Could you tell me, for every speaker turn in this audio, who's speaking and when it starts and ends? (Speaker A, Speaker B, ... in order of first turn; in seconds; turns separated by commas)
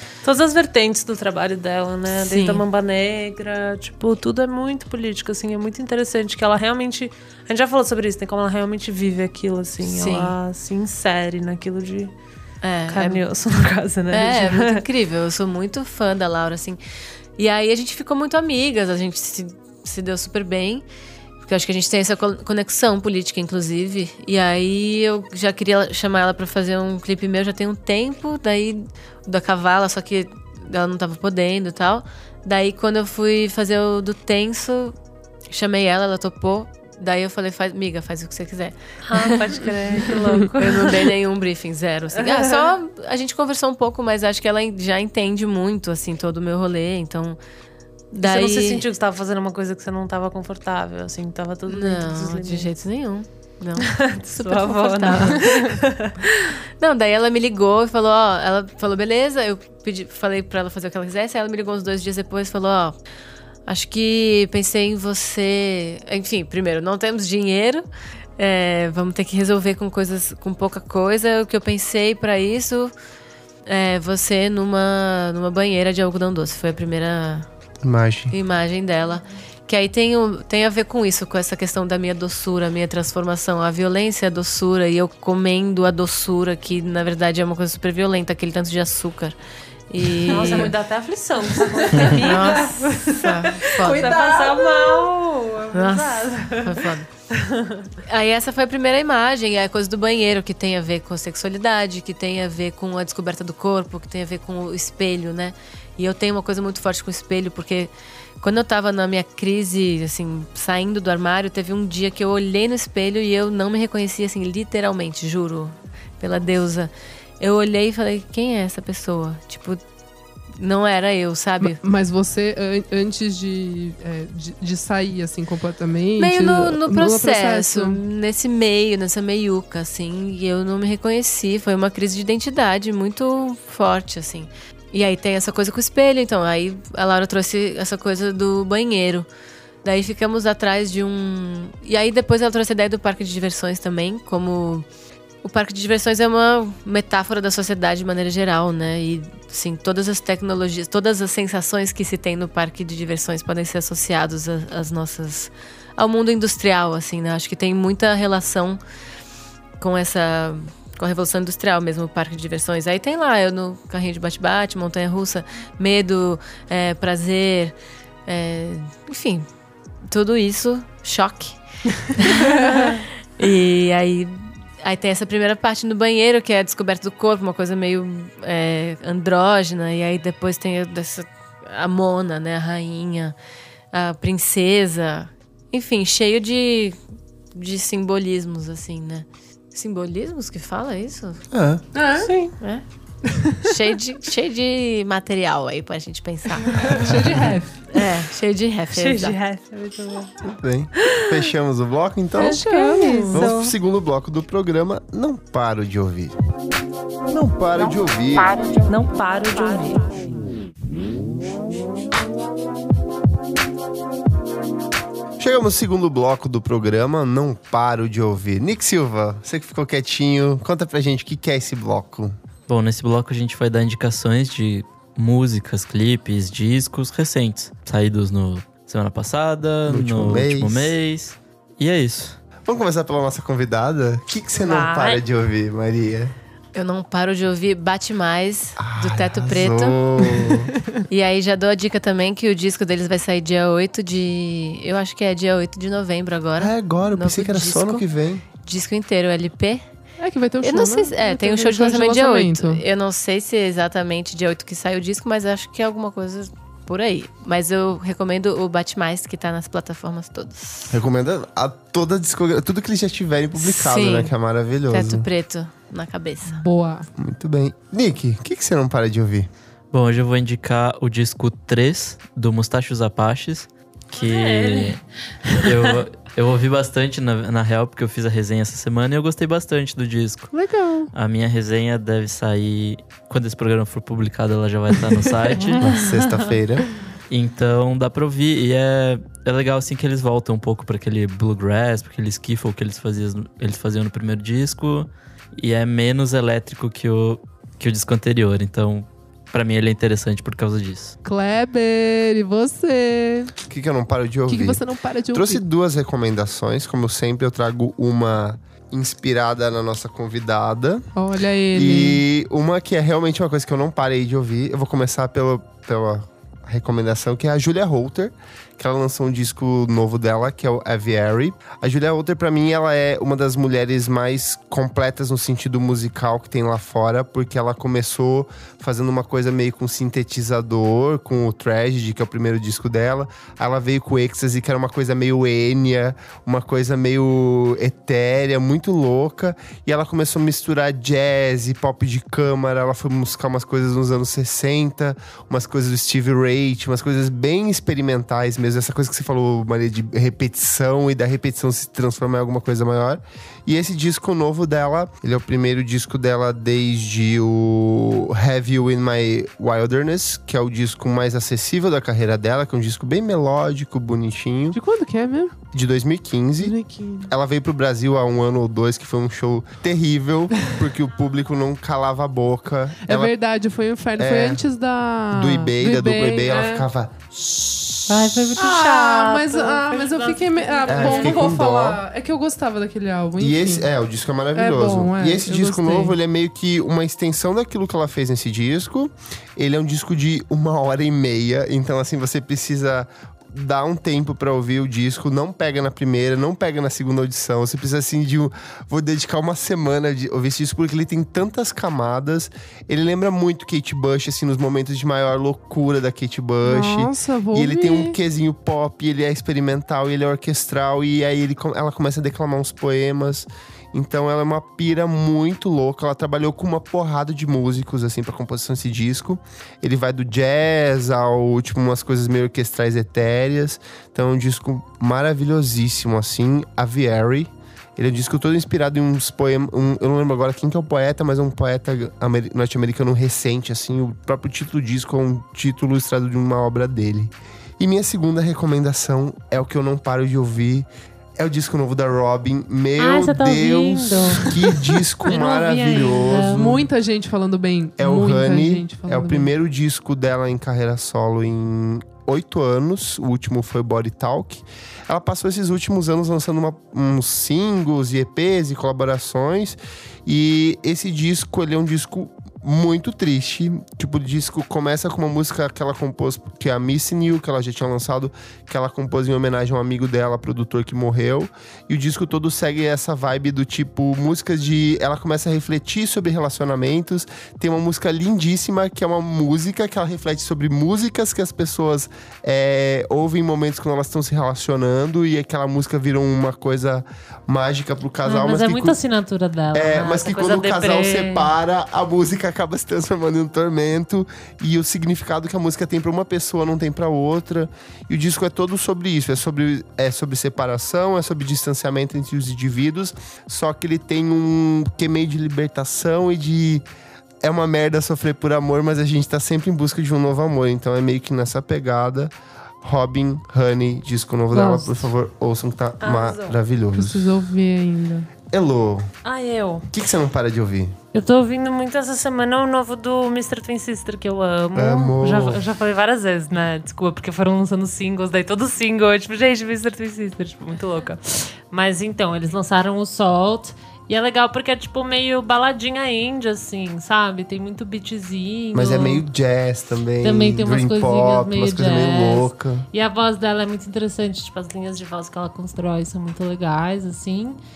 Speaker A: 0.2-12.1, Speaker B: 2.2-2.6, Speaker B: 9.8-10.3, Speaker B: 12.6-13.2, Speaker A: 12.9-14.8, Speaker B: 14.1-16.8, Speaker B: 17.4-20.9, Speaker B: 21.4-34.9, Speaker B: 35.5-39.4, Speaker A: 39.1-41.1, Speaker B: 40.1-47.4, Speaker A: 42.2-42.7, Speaker B: 48.1-48.8, Speaker A: 48.2-52.7, Speaker B: 51.7-55.7, Speaker A: 53.8-56.5, Speaker B: 56.8-63.0, Speaker B: 63.7-67.8, Speaker B: 68.4-72.9, Speaker B: 73.7-77.5, Speaker C: 77.8-78.3, Speaker B: 78.3-89.4, Speaker B: 89.9-90.7, Speaker A: 90.2-96.9, Speaker D: 90.4-90.7, Speaker D: 91.6-92.5, Speaker B: 92.1-94.2, Speaker D: 93.8-95.1, Speaker B: 95.7-97.1, Speaker A: 97.4-97.9, Speaker B: 98.0-119.8, Speaker B: 120.6-121.8, Speaker D: 121.6-128.0, Speaker B: 126.2-139.3, Speaker B: 139.8-144.9, Speaker B: 145.4-158.8, Speaker B: 159.8-167.8, Speaker B: 168.3-169.5, Speaker B: 170.0-183.3, Speaker B: 183.9-187.0, Speaker B: 187.5-191.4, Speaker C: 191.5-191.8, Speaker D: 191.9-192.3, Speaker A: 192.2-192.6, Speaker B: 192.6-192.8, Speaker B: 193.6-196.8, Speaker D: 196.8-197.8, Speaker B: 197.9-199.4, Speaker A: 198.9-200.3, Speaker C: 200.4-202.6, Speaker A: 201.0-201.5, Speaker D: 202.4-203.5, Speaker A: 202.4-203.7, Speaker C: 203.3-206.3, Speaker C: 207.3-208.7, Speaker A: 208.7-210.3, Speaker C: 215.4-222.3, Speaker E: 222.7-232.4, Speaker C: 229.9-230.9, Speaker C: 232.6-236.3, Speaker A: 234.6-235.2, Speaker B: 236.8-240.0, Speaker C: 238.8-240.7, Speaker B: 241.1-248.1, Speaker C: 246.6-248.4, Speaker B: 248.6-249.8, Speaker D: 250.2-252.8, Speaker B: 250.6-261.0, Speaker C: 260.9-265.3, Speaker B: 263.6-264.3, Speaker B: 264.9-266.6, Speaker D: 266.5-267.1, Speaker C: 267.2-269.5, Speaker E: 269.9-275.0, Speaker A: 274.1-276.0, Speaker E: 275.6-280.5, Speaker D: 280.5-281.1, Speaker E: 281.1-285.9, Speaker D: 285.1-285.7, Speaker A: 285.6-286.5, Speaker C: 285.8-286.9, Speaker E: 287.3-301.1, Speaker D: 301.2-303.5, Speaker C: 303.6-311.1, Speaker D: 304.5-305.6, Speaker D: 311.2-312.2, Speaker C: 311.7-364.8, Speaker D: 364.7-365.5, Speaker C: 365.7-373.3, Speaker D: 366.6-367.3, Speaker D: 373.0-383.9, Speaker C: 374.2-374.6, Speaker C: 375.3-377.1, Speaker A: 378.1-381.6, Speaker C: 380.9-382.0, Speaker C: 383.4-446.9, Speaker D: 384.6-386.1, Speaker D: 406.6-408.2, Speaker A: 443.0-446.7, Speaker D: 446.6-449.5, Speaker C: 448.0-489.0, Speaker A: 488.2-491.5, Speaker C: 489.7-506.9, Speaker C: 507.4-517.3, Speaker D: 514.5-515.1, Speaker A: 516.0-516.6, Speaker D: 516.9-518.3, Speaker C: 518.5-519.1, Speaker A: 519.2-519.9, Speaker C: 519.9-521.0, Speaker A: 521.1-539.2, Speaker C: 524.8-525.6, Speaker C: 538.8-542.9, Speaker A: 540.2-547.6